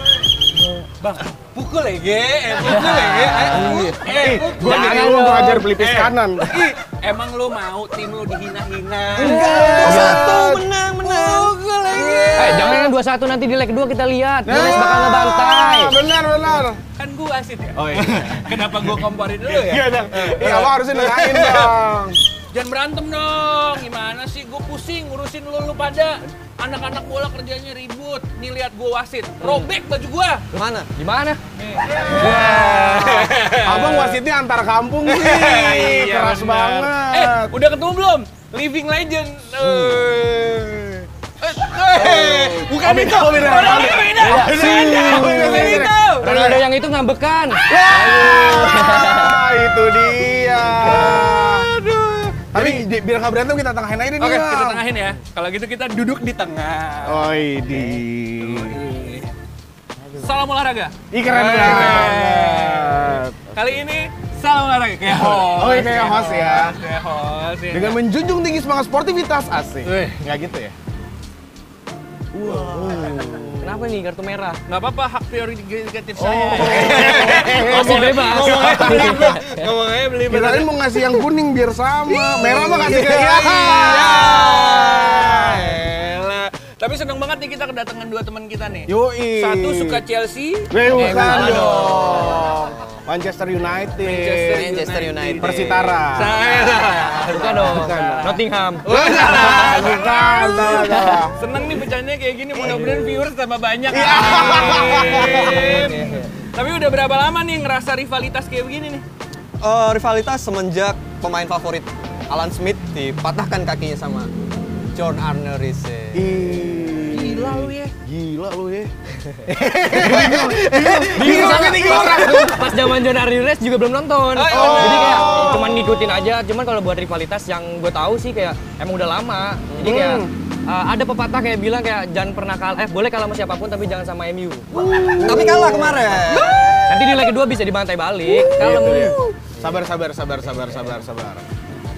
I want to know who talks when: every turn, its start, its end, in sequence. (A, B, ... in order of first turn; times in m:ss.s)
0:00.8-0:10.3 A
0:02.6-0:04.0 B
0:03.0-0:03.6 C
0:03.5-0:06.5 D
0:04.6-0:05.7 B
0:09.1-0:10.6 D
0:09.2-0:12.8 C
0:11.0-0:12.8 A
0:12.0-0:12.9 D
0:12.4-0:16.0 B
0:14.4-0:16.8 D
0:17.0-0:21.7 A
0:17.8-0:18.5 D
0:19.4-0:22.2 D
0:22.5-0:30.4 A
0:29.4-0:29.7 B
0:30.5-0:30.9 C
0:30.9-0:31.4 B
0:31.6-0:34.2 A
0:32.0-0:37.5 D
0:35.0-0:46.4 A
0:39.6-0:40.0 D
0:41.9-0:46.6 D
0:44.3-0:49.4 B
0:47.6-0:48.0 A
0:47.7-0:51.7 D
0:50.8-0:51.9 C
0:50.8-0:51.1 A
0:51.8-0:52.3 A
0:52.5-0:54.8 D
0:54.2-0:57.4 A
0:57.0-0:58.8 D
0:58.4-0:59.3 A
1:00.1-1:08.0 A
1:01.1-1:03.4 D
1:05.0-1:06.8 D
1:07.7-1:10.7 D
1:09.8-1:10.2 A
1:12.3-1:13.8 D
1:12.8-1:13.3 C
1:13.6-1:14.6 B
1:14.7-1:21.2 A
1:16.2-1:19.3 D
1:16.6-1:19.7 B
1:18.5-1:18.8 C
1:20.2-1:25.8 D
1:22.1-1:31.7 A
1:28.9-1:30.0 D
1:30.7-1:34.7 D
1:31.0-1:32.2 B
1:31.1-1:32.8 C
1:34.0-1:49.0 A
1:34.5-1:37.7 C
1:35.4-1:36.5 D
1:37.3-1:38.9 B
1:37.5-1:41.3 D
1:42.6-1:43.2 D
1:43.9-1:45.9 D
1:44.5-1:46.3 B
1:49.6-1:54.3 C
1:54.9-1:56.3 C
1:56.1-1:58.9 D
1:57.1-1:57.9 A
1:59.5-2:02.7 D
1:59.9-2:00.3 B
2:01.0-2:02.5 C
2:01.1-2:15.2 B
2:04.3-2:06.0 A
2:04.5-2:05.9 D
2:09.8-2:10.3 D
2:14.7-2:16.7 D
2:15.2-2:16.6 C
2:16.3-2:17.1 A
2:16.9-2:18.6 B
2:18.3-2:19.4 A
2:18.5-2:21.4 D
2:19.6-2:19.8 B